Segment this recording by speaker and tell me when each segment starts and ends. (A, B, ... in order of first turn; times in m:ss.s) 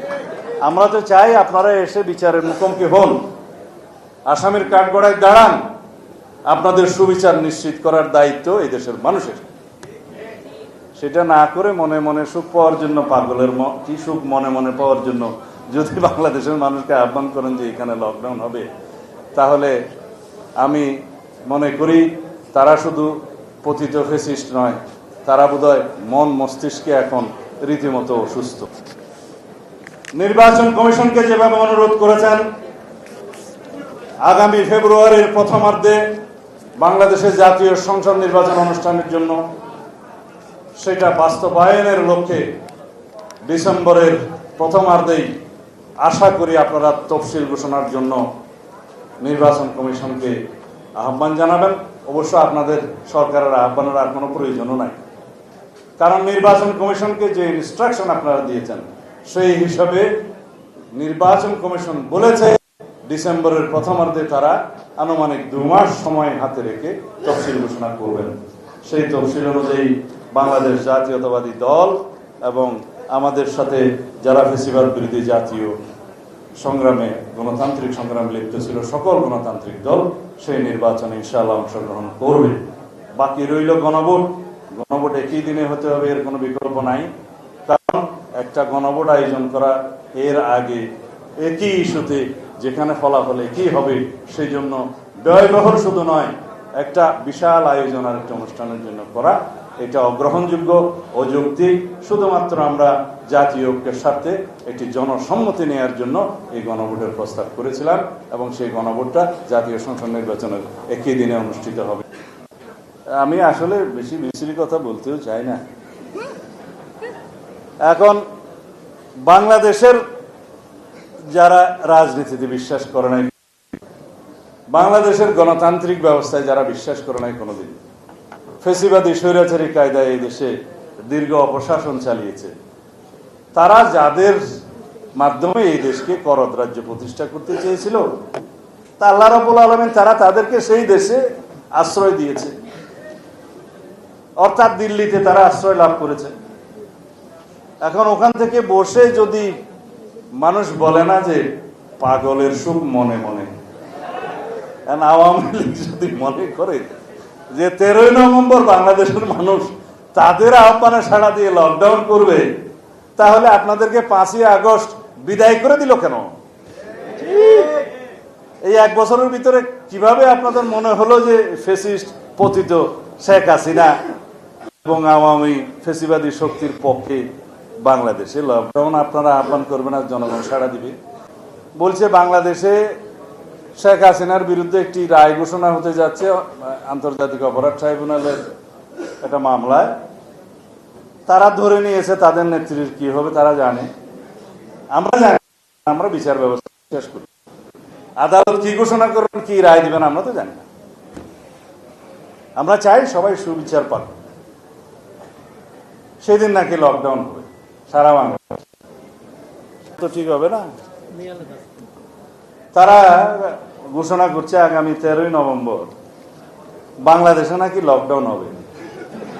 0:00.6-0:03.2 A
0:04.3-0:05.6 A
0:06.5-0:09.5 A
0:11.0-0:18.7 A
0:19.3-0:19.8 A
0:20.6-0:20.9 A
0:21.5-0:28.7 A
0:30.2-0:32.5 A
0:34.2-0:36.1 A
0:36.8-0:39.4 A
0:40.8-0:42.5 A
0:43.4-0:45.4 A
0:46.0-0:48.2 A
0:49.2-0:50.4 A
0:51.0-0:55.0 A
0:56.0-1:00.1 A
1:00.9-1:15.7 A
1:16.6-1:22.6 A
1:23.2-1:27.1 A
1:27.6-1:30.9 A
1:31.4-1:52.0 A
1:53.2-1:55.6 A
1:57.8-1:58.2 A
1:59.2-2:00.0 A
2:01.3-2:03.3 A
2:04.7-2:07.8 A
2:08.6-2:10.5 A
2:11.1-2:12.5 A
2:13.5-2:14.4 A
2:15.2-2:18.0 A
2:19.0-2:21.2 A
2:21.8-2:22.5 A
2:24.4-2:26.3 A
2:27.8-2:29.6 A
2:30.4-2:31.4 A
2:32.0-2:33.5 A
2:34.9-2:36.9 A
2:37.5-2:42.5 A
2:43.2-2:46.3 A
2:48.6-2:54.0 A
2:54.8-2:57.2 A
2:57.8-3:01.0 A
3:01.8-3:02.9 A
3:03.8-3:08.5 A
3:09.2-3:09.9 A
3:11.3-3:13.9 A
3:14.9-3:17.3 A
3:18.2-3:20.6 A
3:22.6-3:24.2 A
3:26.2-3:28.5 A
3:29.9-3:30.6 A
3:32.7-3:35.9 A
3:37.0-3:38.6 A